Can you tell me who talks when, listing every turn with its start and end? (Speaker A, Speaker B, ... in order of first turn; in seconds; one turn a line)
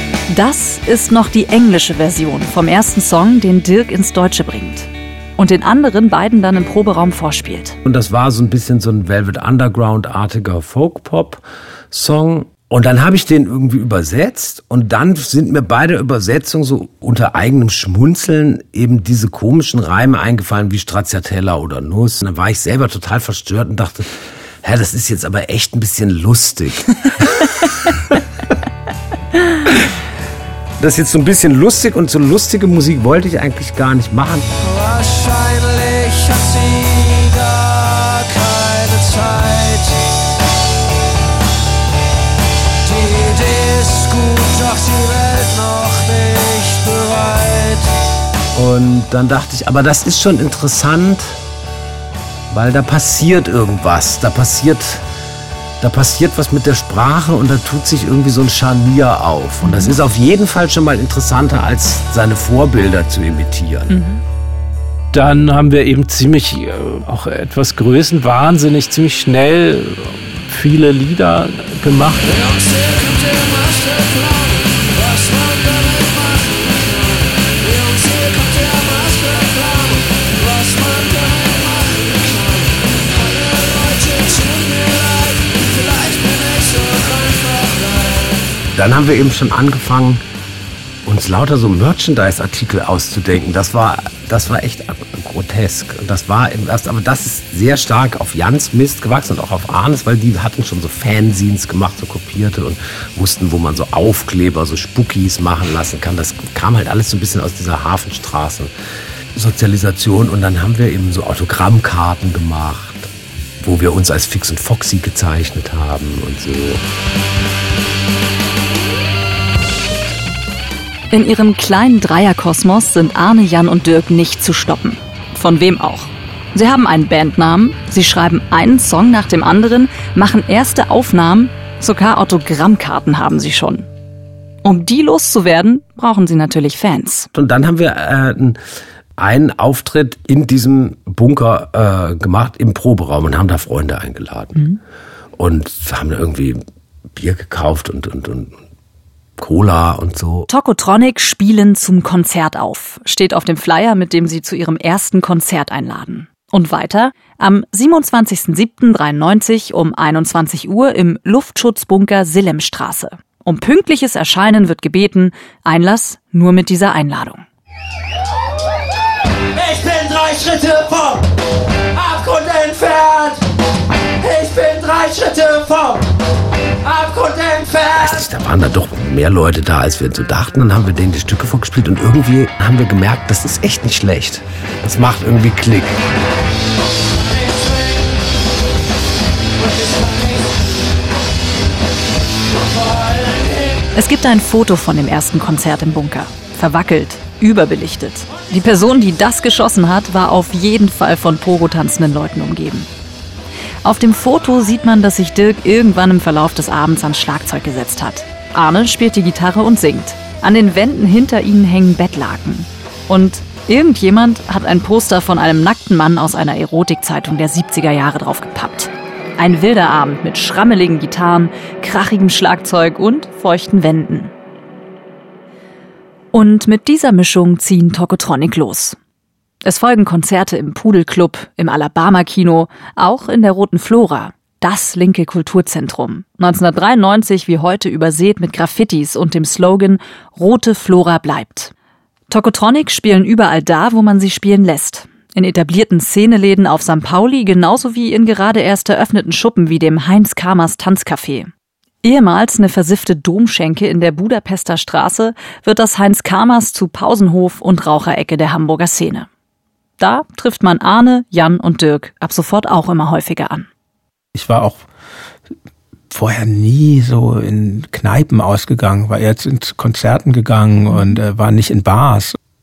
Speaker A: 0.3-7.8
Speaker B: 7.8-28.2
Speaker B: 30.8-34.5
Speaker C: 34.6-40.0
Speaker C: 42.8-47.9
Speaker B: 48.5-51.4
Speaker B: 52.5-55.0
Speaker B: 55.8-64.0
Speaker D: 65.1-72.3
Speaker C: 72.2-88.5
Speaker B: 88.7-90.2
Speaker B: 91.0-108.7
Speaker B: 109.3-116.8
Speaker A: 121.1-133.9
Speaker A: 134.6-137.3
Speaker B: 137.3-138.6
Speaker B: 139.2-144.6
Speaker B: 145.4-146.6
Speaker B: 147.2-148.5
Speaker B: 149.4-150.5
Speaker A: 150.5-167.4
Speaker C: 169.5-171.2
Speaker C: 171.9-173.4
Speaker C: 174.2-176.0
Speaker C: 176.8-178.1
Speaker B: 178.0-186.0
Speaker C: 187.3-188.0
Speaker C: 189.6-190.6
Speaker C: 192.7-193.8
Speaker A: 193.9-202.9
Speaker A: 203.8-224.3
Speaker A: 226.3-229.0
Speaker A: 229.6-241.7
Speaker A: 242.3-251.5
Speaker A: 252.0-259.3
Speaker A: 260.0-263.7
Speaker E: 264.3-264.9
Speaker E: 266.1-272.4